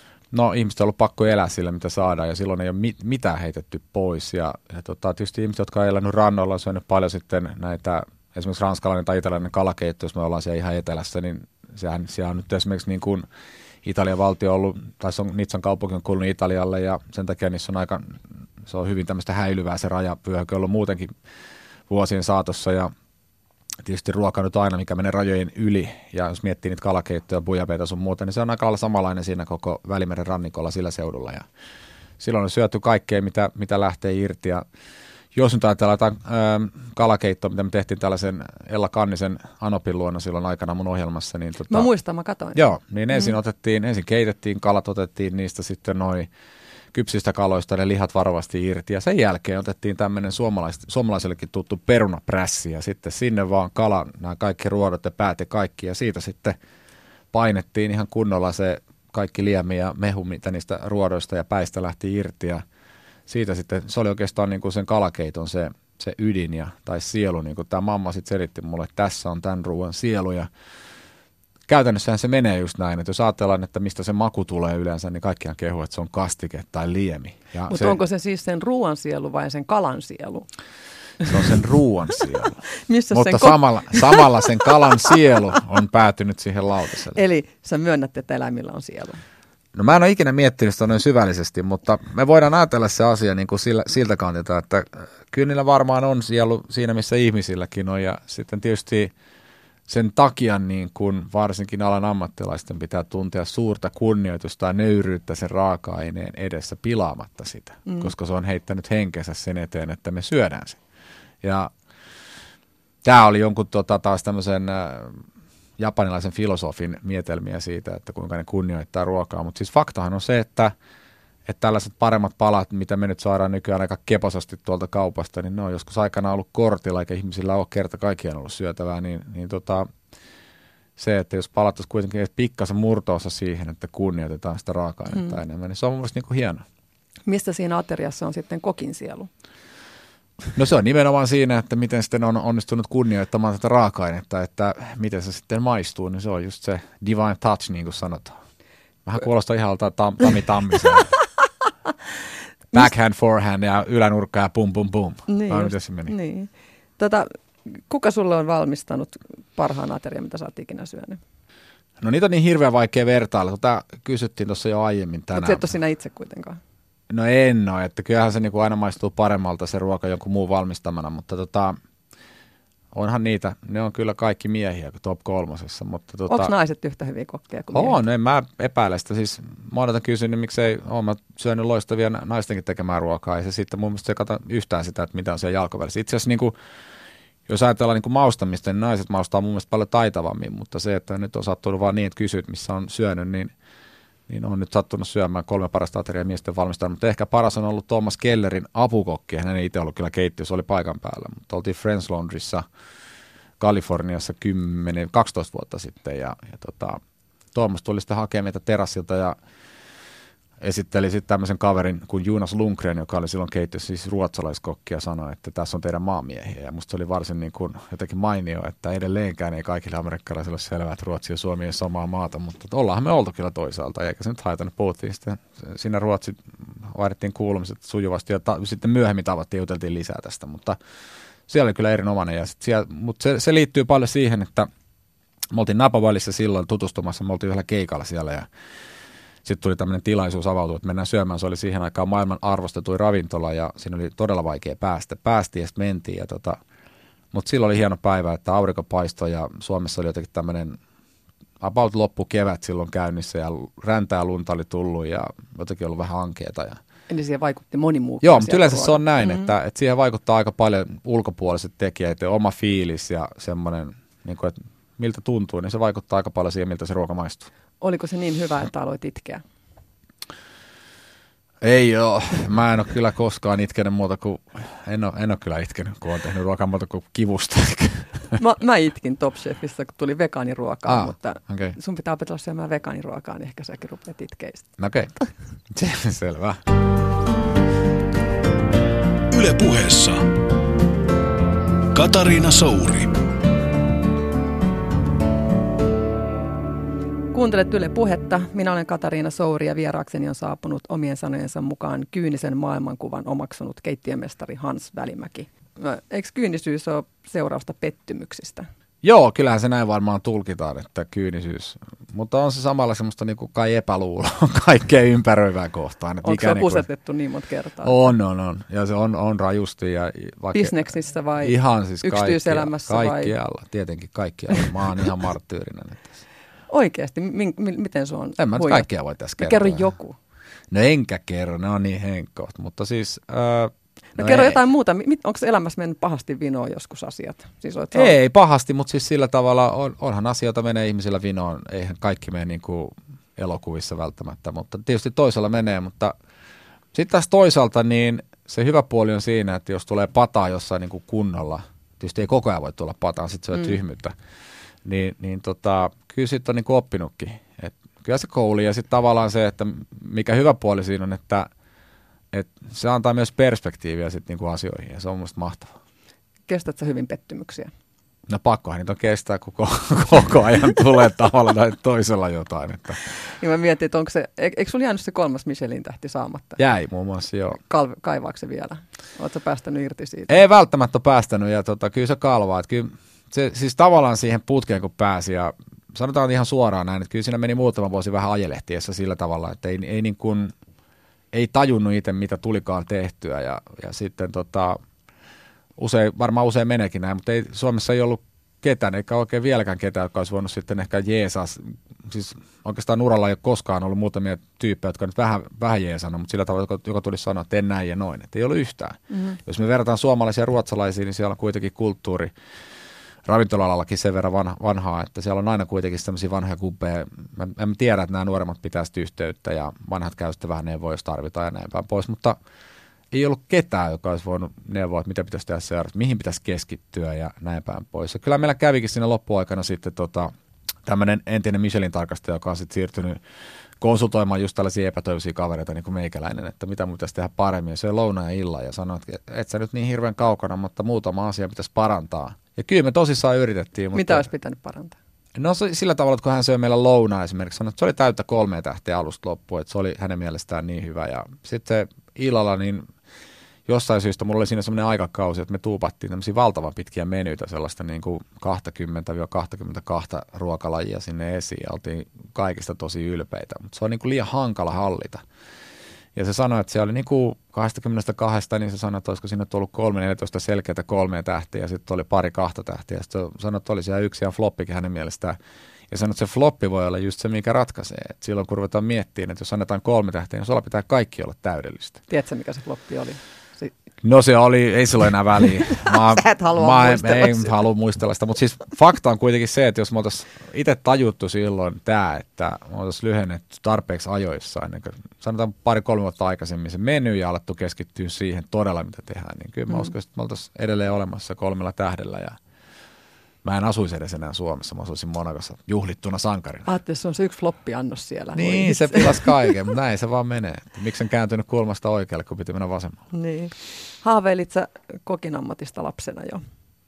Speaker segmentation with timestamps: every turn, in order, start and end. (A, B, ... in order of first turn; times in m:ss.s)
0:00.3-0:13.3 A
0:13.8-0:21.1 A
0:21.9-0:22.9 A
0:23.8-0:31.5 A
0:32.2-0:34.6 A
0:35.4-0:41.9 A
0:41.7-0:42.6 B
0:42.6-0:46.3 A
0:46.9-0:56.6 A
0:57.3-1:02.6 A
1:03.3-1:10.5 A
1:11.7-1:18.0 A
1:17.7-1:20.5 B
1:21.2-1:22.6 A
1:22.9-1:25.1 B
1:23.1-1:27.2 A
1:27.1-1:29.2 B
1:29.8-1:39.1 A
1:39.9-1:50.8 A
1:51.4-1:51.7 A
1:53.0-1:55.2 A
1:55.8-2:00.7 A
2:01.5-2:09.9 A
2:11.0-2:16.6 A
2:17.3-2:19.3 B
2:20.6-2:28.4 A
2:29.1-2:31.1 A
2:32.7-2:36.1 A
2:35.3-2:41.2 B
2:42.0-2:45.7 A
2:45.3-2:46.6 B
2:47.1-2:51.8 A
2:52.9-2:56.5 A
2:56.3-2:58.0 B
2:57.7-3:06.6 A
3:07.5-3:13.5 A
3:14.3-3:22.6 A
3:23.6-3:27.0 A
3:27.5-3:29.4 A
3:30.6-3:50.8 A
3:51.5-3:54.7 A
3:55.5-3:58.5 A
3:59.4-4:06.6 A
4:07.3-4:10.8 A
4:11.6-4:16.8 A
4:17.1-4:19.4 B
4:18.2-4:27.5 A
4:27.8-4:29.4 B
4:31.6-4:38.4 A
4:38.4-4:44.7 B
4:40.9-4:41.8 A
4:44.8-4:45.2 A
4:45.7-4:46.6 A
4:49.3-4:50.3 C
4:51.9-4:53.1 C
4:57.3-5:08.7 B
5:09.0-5:16.9 A
5:16.2-5:18.0 B
5:17.8-5:26.2 A
5:20.5-5:23.3 B
5:26.7-5:28.9 B
5:28.4-5:29.8 A
5:29.4-5:30.2 B
5:30.7-5:34.6 A
5:34.2-5:38.1 B
5:37.9-5:46.1 A
5:46.9-5:54.1 A
5:54.8-6:01.5 A
6:02.3-6:05.8 A
6:06.5-6:07.7 B
6:08.3-6:13.0 A
6:13.1-6:16.6 B
6:16.6-6:17.6 A
6:17.6-6:20.3 B
6:20.3-6:30.5 A
6:31.3-6:34.8 A
6:35.8-6:52.3 A
6:49.1-6:49.4 B
6:53.3-7:02.4 A
7:03.1-7:10.3 A
7:10.8-7:13.2 A
7:13.8-7:24.3 A
7:23.9-7:25.0 B
7:25.4-7:32.9 A
7:33.7-7:45.2 A
7:46.2-7:55.4 A
7:55.9-8:02.0 A
8:02.1-8:03.7 B
8:04.0-8:22.4 A
8:05.7-8:07.5 B
8:23.4-8:26.7 A
8:26.7-8:29.5 B
8:28.4-8:33.0 A
8:33.1-8:36.4 B